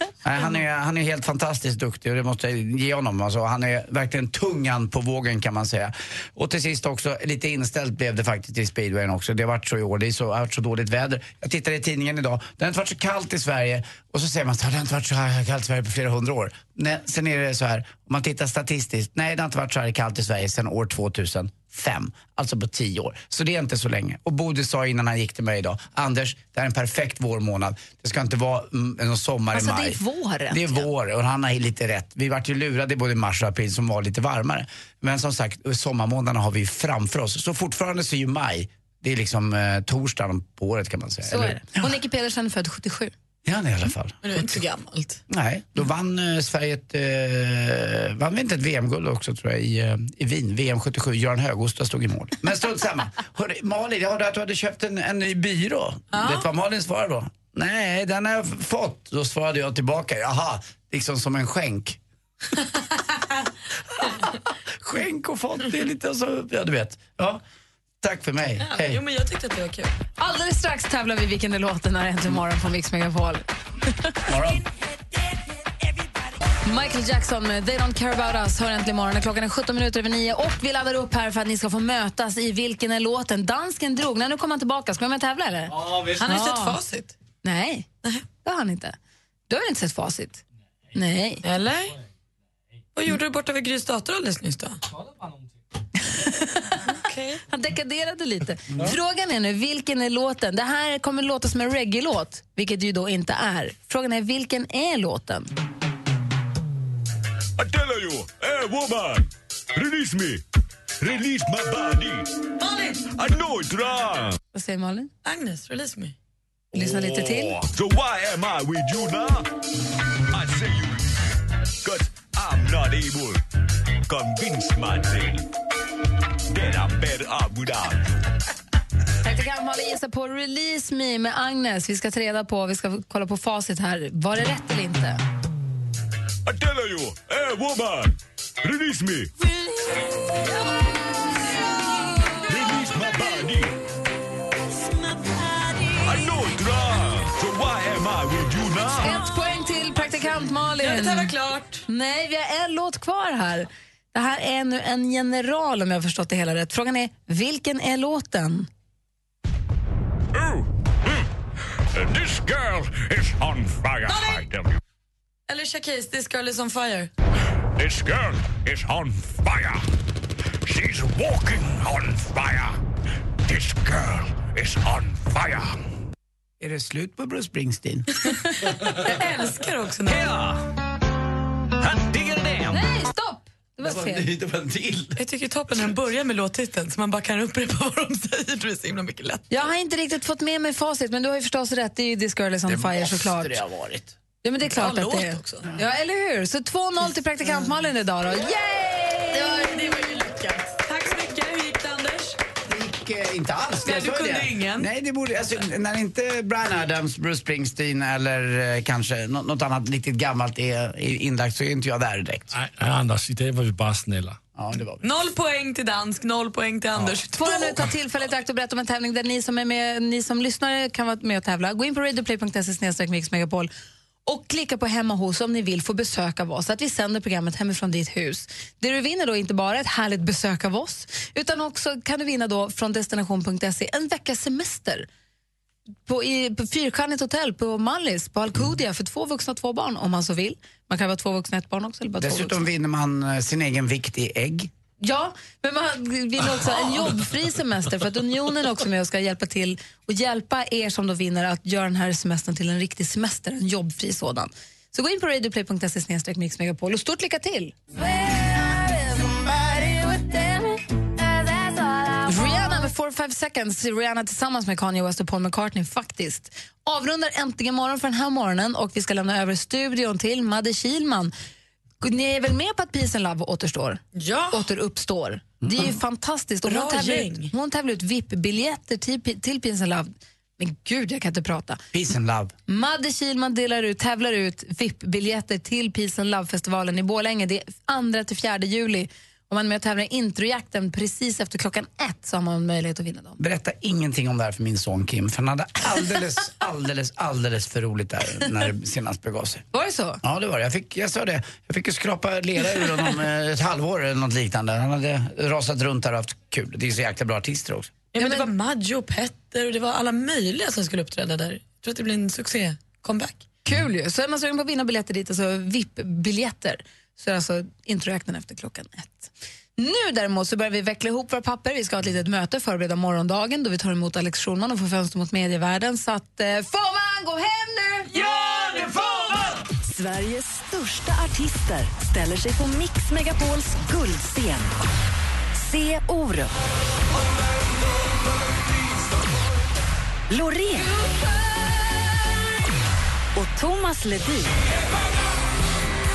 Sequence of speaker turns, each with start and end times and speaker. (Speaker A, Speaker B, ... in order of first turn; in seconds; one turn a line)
Speaker A: 0.2-30.0
Speaker B: 29.5-30.9
Speaker A: 30.5-41.9
Speaker B: 41.2-43.1
Speaker A: 43.4-44.5
Speaker C: 44.2-45.2
Speaker A: 45.3-62.0
Speaker C: 56.1-56.4
Speaker A: 64.8-67.4
Speaker A: 68.0-69.0
Speaker C: 68.6-69.9
Speaker B: 70.2-73.5
Speaker A: 74.2-74.6
Speaker B: 76.6-86.8
Speaker D: 85.7-86.2
Speaker C: 86.2-87.1
Speaker B: 87.4-87.9
Speaker B: 88.4-89.0
Speaker B: 89.5-90.4
Speaker B: 90.9-91.4
Speaker C: 91.4-92.0
Speaker C: 92.9-94.8
Speaker D: 94.9-95.4
Speaker C: 96.8-97.4
Speaker B: 97.5-105.5
Speaker E: 107.6-110.4
Speaker E: 111.0-112.2
Speaker C: 112.6-113.0
Speaker E: 113.2-114.3
Speaker B: 114.5-115.1
Speaker C: 115.2-116.1
Speaker B: 116.7-117.6
Speaker E: 116.8-119.4
Speaker E: 120.3-121.2
Speaker E: 121.8-123.4
Speaker E: 124.1-125.4
Speaker E: 126.5-128.2
Speaker B: 129.2-135.2
Speaker E: 136.5-139.3
Speaker E: 142.5-143.7
Speaker C: 145.2-146.2
Speaker E: 146.1-149.1
Speaker B: 149.0-151.3
Speaker C: 150.8-151.8
Speaker B: 151.9-158.7
Speaker E: 160.3-161.3
Speaker E: 161.9-164.8
Speaker C: 164.1-164.4
Speaker C: 165.5-167.1
Speaker E: 167.8-169.8
Speaker E: 170.6-172.8
Speaker E: 173.4-175.7
Speaker A: 176.6-178.1
Speaker C: 178.2-180.3
Speaker E: 180.0-180.6
Speaker E: 181.8-182.8
Speaker B: 182.7-184.3
Speaker A: 183.8-185.2
Speaker C: 185.2-189.5
Speaker B: 189.5-193.6
Speaker A: 192.7-194.1
Speaker B: 194.4-199.8
Speaker C: 194.8-195.7
Speaker C: 199.3-202.4
Speaker A: 202.7-212.5
Speaker C: 203.8-204.9
Speaker D: 212.5-214.4
Speaker A: 214.5-215.0
Speaker C: 215.0-217.8
Speaker B: 217.4-223.7
Speaker B: 224.2-235.1
Speaker B: 236.1-242.7
Speaker A: 242.2-244.7
Speaker B: 245.0-257.8
Speaker B: 262.2-271.3
Speaker B: 272.0-281.8
Speaker C: 274.1-274.6
Speaker C: 276.6-277.5
Speaker A: 281.9-282.5
Speaker B: 282.7-293.4
Speaker A: 293.4-299.6
Speaker B: 299.7-300.2
Speaker A: 300.2-307.9
Speaker C: 308.1-313.4
Speaker B: 308.2-308.5
Speaker B: 313.6-328.1
Speaker C: 328.2-329.2
Speaker F: 329.8-334.7
Speaker F: 335.6-336.5
Speaker F: 340.3-340.9
Speaker F: 343.3-344.5